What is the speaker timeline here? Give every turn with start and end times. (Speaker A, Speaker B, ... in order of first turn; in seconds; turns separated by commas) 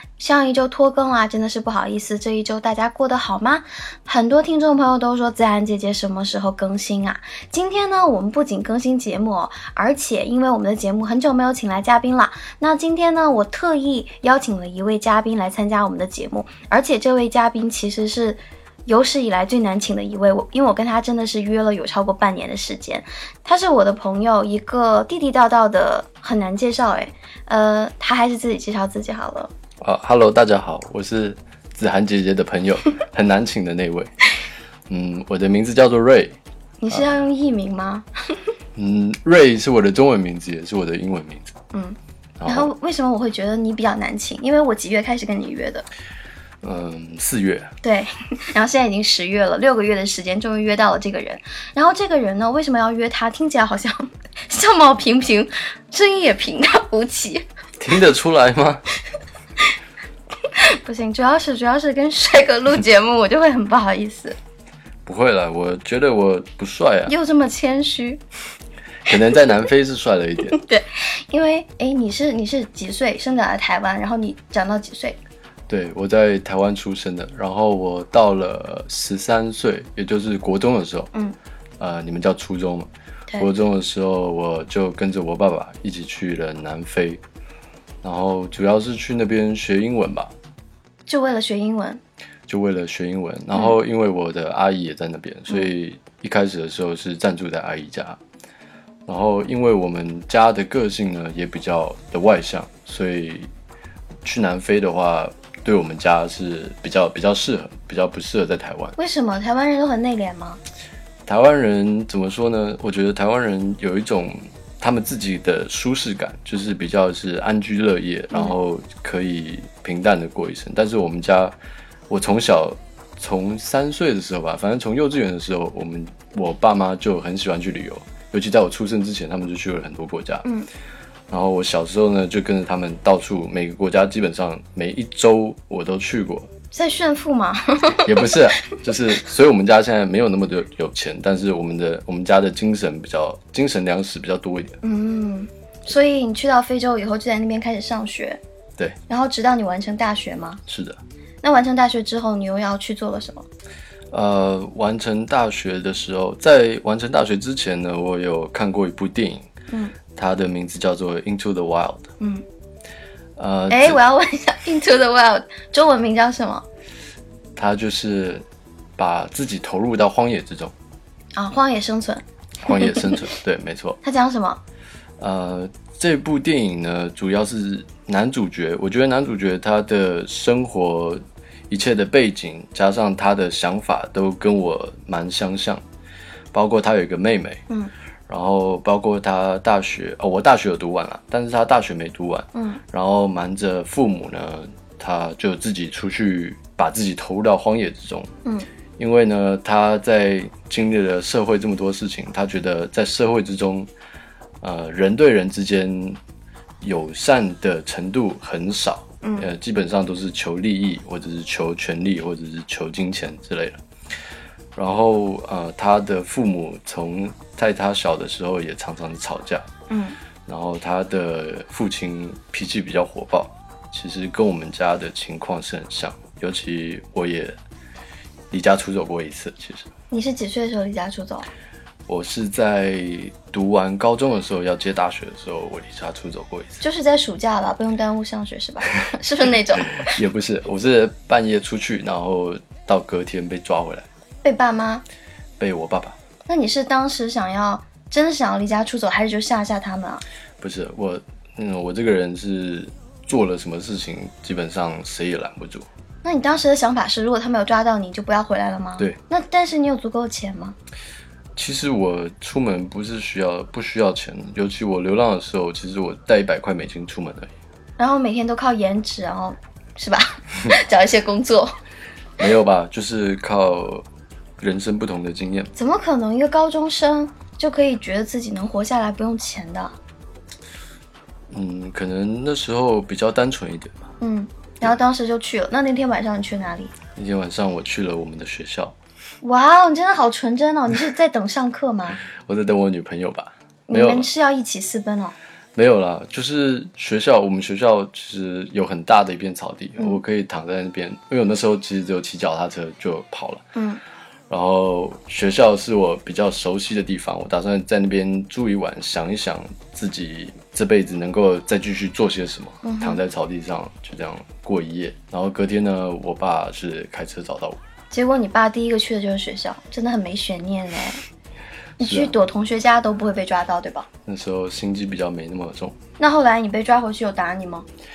Speaker A: 0.2-29.5, Speaker B: 29.8-34.1, Speaker B: 34.9-36.4, Speaker A: 36.8-38.1, Speaker B: 38.7-41.5, Speaker A: 41.7-45.8, Speaker B: 42.4-42.7, Speaker B: 46.6-47.7, Speaker A: 47.8-57.4, Speaker B: 57.8-58.8, Speaker A: 60.5-64.4, Speaker B: 65.0-67.1, Speaker A: 67.1-68.2, Speaker B: 69.0-70.6, Speaker A: 70.5-75.2, Speaker B: 75.7-81.1, Speaker B: 81.8-87.2, Speaker B: 88.0-90.3, Speaker A: 91.1-92.0, Speaker B: 92.5-98.2, Speaker B: 99.0-103.5, Speaker B: 104.2-109.0, Speaker A: 109.0-110.6, Speaker B: 111.2-121.5, Speaker B: 122.1-130.4, Speaker B: 131.3-136.5, Speaker A: 136.7-138.4, Speaker B: 138.0-144.8, Speaker A: 144.8-148.4, Speaker A: 149.1-150.6, Speaker B: 150.7-151.0, Speaker A: 151.4-153.4, Speaker B: 154.1-159.5, Speaker B: 160.1-162.1, Speaker A: 162.2-162.4, Speaker B: 163.4-164.0, Speaker A: 163.7-166.6, Speaker B: 167.5-168.4, Speaker B: 169.0-170.7, Speaker A: 171.3-173.2, Speaker B: 172.6-174.0, Speaker A: 174.0-174.6, Speaker B: 175.2-185.8, Speaker B: 186.5-187.6, Speaker B: 188.3-198.3, Speaker A: 192.5-192.8, Speaker B: 199.0-203.9, Speaker B: 204.6-206.2, Speaker B: 206.8-213.8, Speaker A: 209.2-209.5, Speaker B: 214.7-219.7, Speaker A: 219.9-220.2, Speaker B: 220.4-227.5, Speaker B: 228.5-229.9, Speaker A: 230.1-231.5, Speaker B: 232.1-236.8, Speaker A: 236.8-240.2, Speaker B: 240.0-244.1, Speaker A: 244.4-245.0, Speaker B: 245.6-246.2, Speaker A: 246.4-250.2, Speaker B: 250.6-255.9, Speaker A: 256.2-260.8, Speaker B: 261.6-267.5, Speaker A: 268.0-271.7, Speaker B: 272.4-274.1, Speaker B: 274.6-275.7, Speaker A: 275.7-279.9, Speaker B: 281.5-284.0, Speaker A: 284.2-286.9, Speaker B: 287.1-288.9, Speaker A: 289.4-292.2, Speaker B: 292.2-294.3, Speaker A: 293.9-295.3, Speaker B: 295.7-303.6, Speaker A: 303.7-304.0, Speaker B: 304.5-317.8, Speaker A: 312.8-313.2, Speaker A: 318.1-321.2, Speaker A: 322.0-324.1, Speaker B: 322.0-322.4, Speaker B: 324.2-326.0, Speaker A: 326.2-327.9